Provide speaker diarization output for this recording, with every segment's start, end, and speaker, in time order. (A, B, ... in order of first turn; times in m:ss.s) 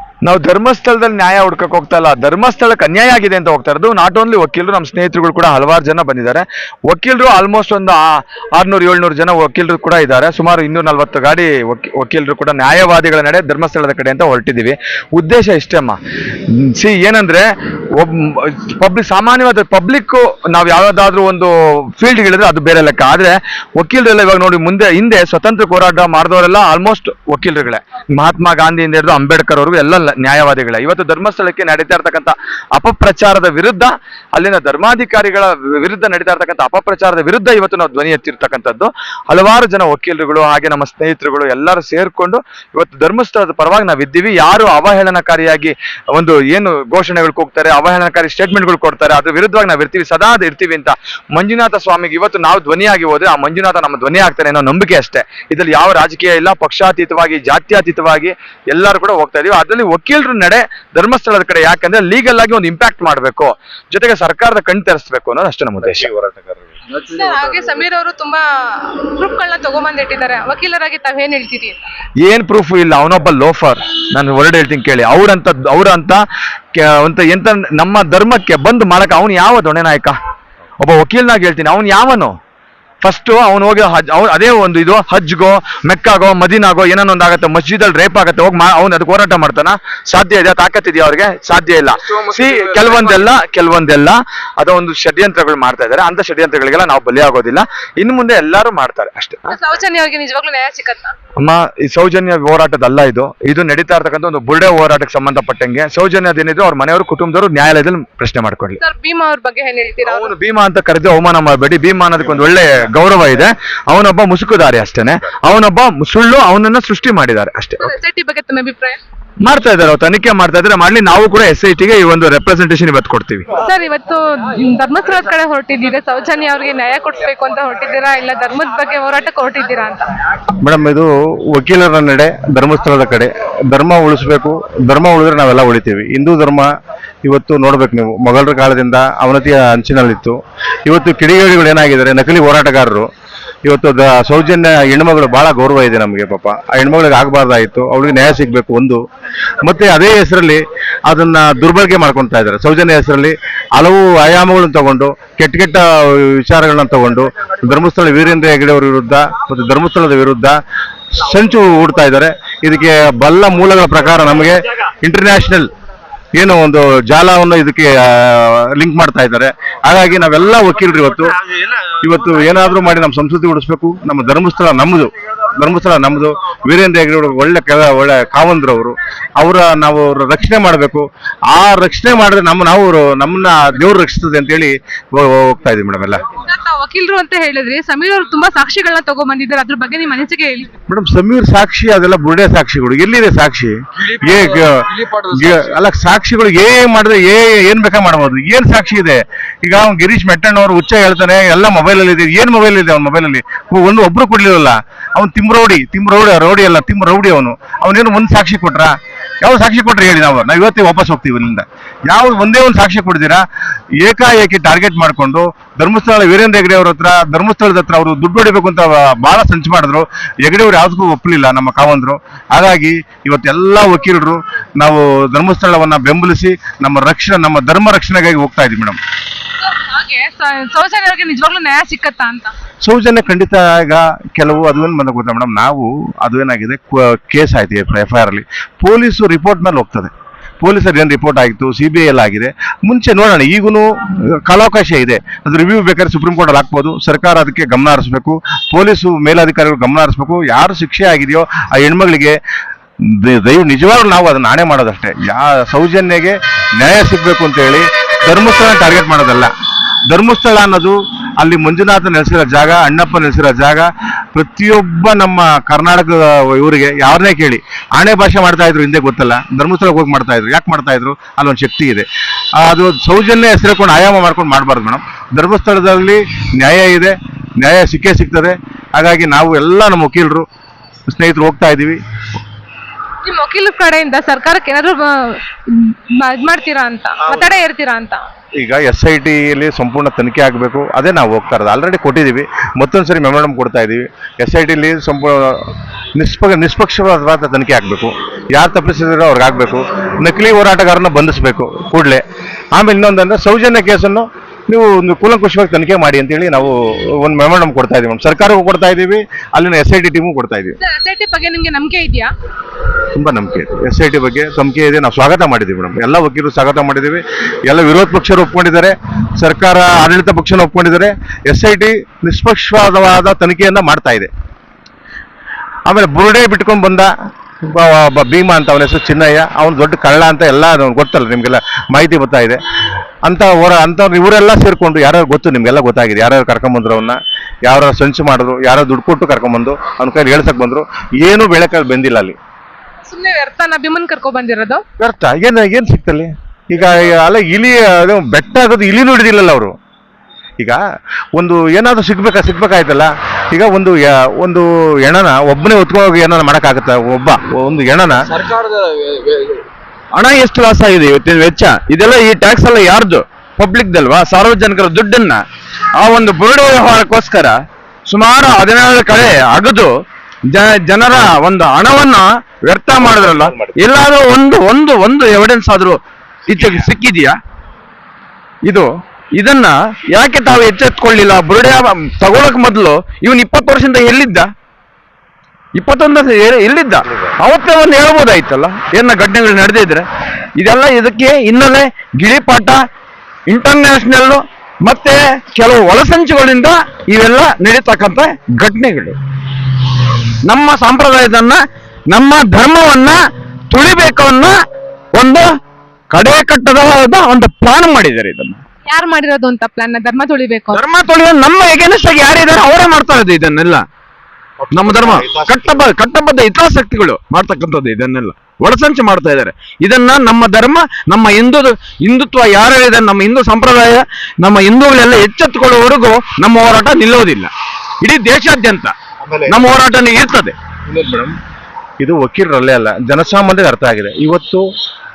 0:00.2-0:16.0 A
0:16.6-1:06.1 A
1:05.8-1:06.6 B
1:07.0-1:11.8 C
1:12.2-1:16.2 A
1:16.8-1:20.2 A
1:20.8-1:22.4 A
1:23.0-1:39.4 A
1:39.5-1:41.1 C
1:41.4-1:48.8 A
1:48.8-1:50.3 C
1:50.0-1:57.9 A
1:57.8-1:59.0 C
1:59.4-2:03.5 A
2:03.6-2:10.0 C
2:10.6-2:16.7 B
2:17.2-2:23.1 B
2:23.6-2:29.0 B
2:29.6-2:40.6 B
2:41.1-2:45.7 B
2:46.4-2:51.4 B
2:52.0-3:06.3 B
3:06.4-3:10.7 C
3:10.9-3:33.4 B
3:34.0-3:49.0 B
3:49.6-3:52.5 C
3:52.8-4:12.4 B
4:13.0-4:19.5 B
4:20.1-4:32.1 B
4:32.6-4:40.4 B
4:41.1-4:42.0 B
4:43.2-4:48.2 C
4:48.6-5:02.2 B
5:02.8-5:10.8 B
5:10.8-5:12.3 C
5:13.1-5:24.3 B
5:25.9-5:27.1 B
5:27.7-5:32.6 B
5:33.2-5:42.4 B
5:43.1-5:44.8 C
5:45.0-5:49.7 B
5:51.3-5:58.4 B
6:00.1-6:05.4 D
6:06.0-6:09.9 D
6:10.5-6:17.4 D
6:13.0-6:13.8 B
6:18.6-6:24.5 D
6:25.7-6:30.0 D
6:30.6-6:32.8 D
6:33.5-6:39.2 D
6:40.4-6:43.2 D
6:43.7-6:44.6 D
6:45.1-6:45.6 D
6:46.1-6:48.6 D
6:48.9-6:50.8 C
6:50.7-6:53.8 D
6:54.7-7:07.5 D
6:54.8-6:55.5 B
7:08.0-7:08.9 D
7:09.2-7:09.6 B
7:09.5-7:10.5 D
7:10.9-7:11.3 B
7:12.0-7:14.6 B